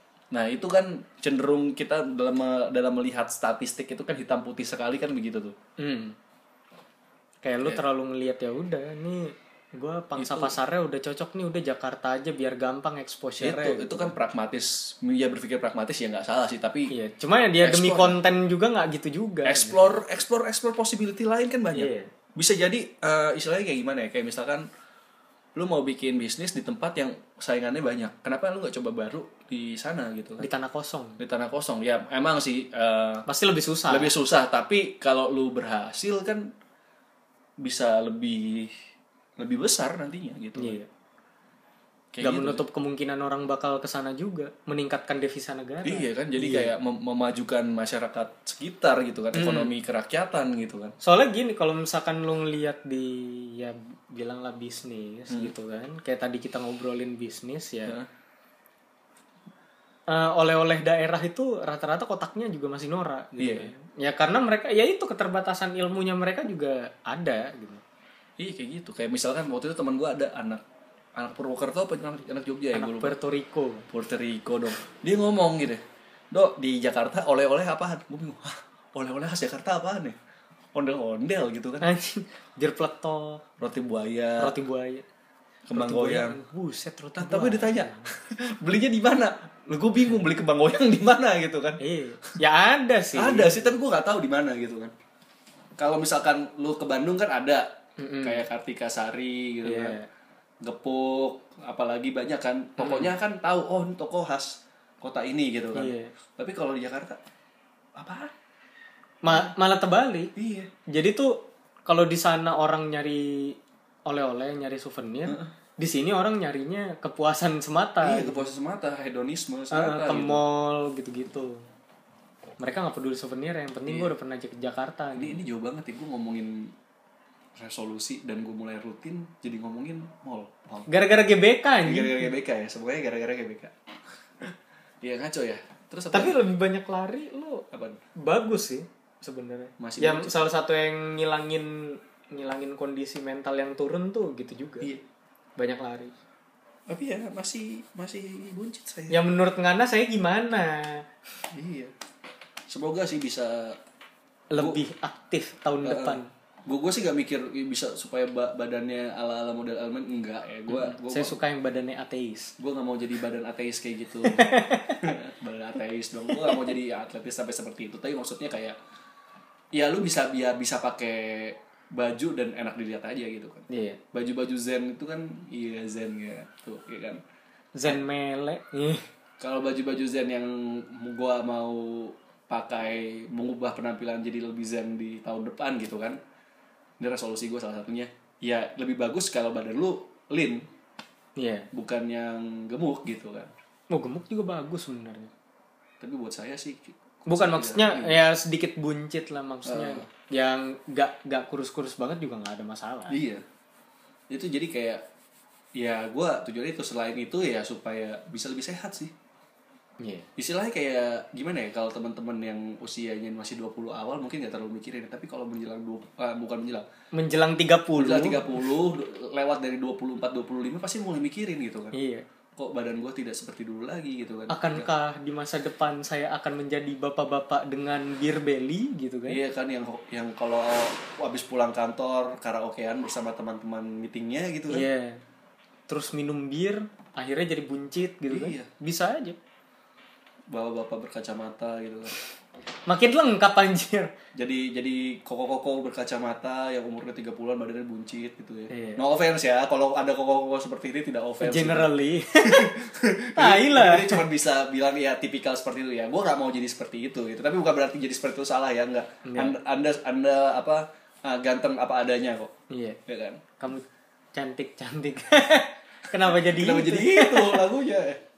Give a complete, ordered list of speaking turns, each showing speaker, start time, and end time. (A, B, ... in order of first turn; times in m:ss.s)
0:00.3-0:05.6 A
0:05.8-0:06.2 B
0:07.4-0:14.1 B
0:10.2-0:10.6 A
0:13.4-0:16.9 A
0:16.9-0:19.9 B
0:17.6-0:18.2 A
0:19.4-0:24.7 A
0:21.7-0:22.1 B
0:25.5-0:30.5 A
0:30.4-0:31.2 B
0:31.2-0:33.2 A
0:33.3-0:34.1 B
0:33.9-0:36.5 A
0:37.6-0:38.7 A
0:39.4-0:40.8 A
0:40.6-0:40.9 B
0:42.1-0:42.6 A
0:42.2-0:46.7 B
0:45.8-0:51.0 A
0:49.3-0:49.7 B
0:51.0-0:57.9 B
1:00.1-1:07.8 B
1:03.4-1:03.7 A
1:08.4-1:10.6 A
1:11.2-1:13.2 A
1:12.7-1:13.8 B
1:13.9-1:20.2 A
1:20.7-1:21.8 A
1:21.8-1:23.4 B
1:23.6-1:24.6 A
1:24.4-1:25.0 B
1:25.7-1:26.4 A
1:25.7-1:28.1 B
1:27.2-1:31.8 A
1:31.8-1:33.7 B
1:33.1-1:34.9 A
1:35.8-1:37.7 A
1:38.0-1:38.4 B
1:38.2-1:40.0 A
1:39.6-1:40.0 B
1:40.6-1:47.2 A
1:42.8-1:43.1 B
1:45.7-1:46.1 B
1:48.0-1:48.3 A
1:49.2-1:50.3 B
1:50.4-1:50.7 A
1:50.9-1:58.4 B
1:55.2-1:55.5 A
1:58.0-2:00.4 A
1:59.7-2:01.6 B
2:02.6-2:05.4 B
2:03.9-2:04.1 A
2:05.2-2:06.7 A
2:07.6-2:10.9 A
2:10.9-2:12.3 B
2:11.8-2:13.7 A
2:14.4-2:16.4 A
2:16.1-2:17.6 B
2:17.7-2:18.0 A
2:18.2-2:24.9 B
2:19.8-2:20.5 A
2:25.6-2:26.1 B
2:26.9-2:29.2 A
2:29.1-2:31.0 B
2:31.5-2:31.9 A
2:32.7-2:33.8 A
2:34.5-2:36.3 B
2:34.6-2:34.8 A
2:35.8-2:41.4 A
2:40.7-2:42.5 B
2:42.6-2:48.8 A
2:44.2-2:45.1 B
2:46.3-2:46.6 B
2:49.7-2:57.2 A
2:53.7-2:54.0 B
2:57.8-2:59.0 B
2:59.4-3:06.2 A
3:07.0-3:10.6 A
3:11.4-3:11.7 B
3:11.7-3:13.5 A
3:13.9-3:15.3 B
3:16.0-3:18.2 A
3:17.3-3:23.2 B
3:19.6-3:20.1 A
3:23.1-3:23.4 A
3:24.3-3:25.0 A
3:25.8-3:29.1 A
3:30.0-3:30.3 B
3:30.4-3:36.8 A
3:37.1-3:38.6 B
3:38.0-3:41.9 A
3:41.9-3:42.2 B
3:42.6-3:44.9 A
3:44.5-3:49.4 B
3:49.3-3:54.9 A
3:54.7-3:55.2 B
3:55.9-3:59.4 B
3:58.3-3:58.7 A
4:00.5-4:02.1 A
4:02.9-4:04.1 B
4:04.3-4:11.9 A
4:08.7-4:09.0 B
4:11.4-4:12.7 B
4:12.4-4:22.5 A
4:13.4-4:14.2 B
4:19.2-4:19.6 B
4:22.7-4:23.0 B
4:23.1-4:23.4 A
4:23.6-4:27.6 B
4:26.1-4:28.2 A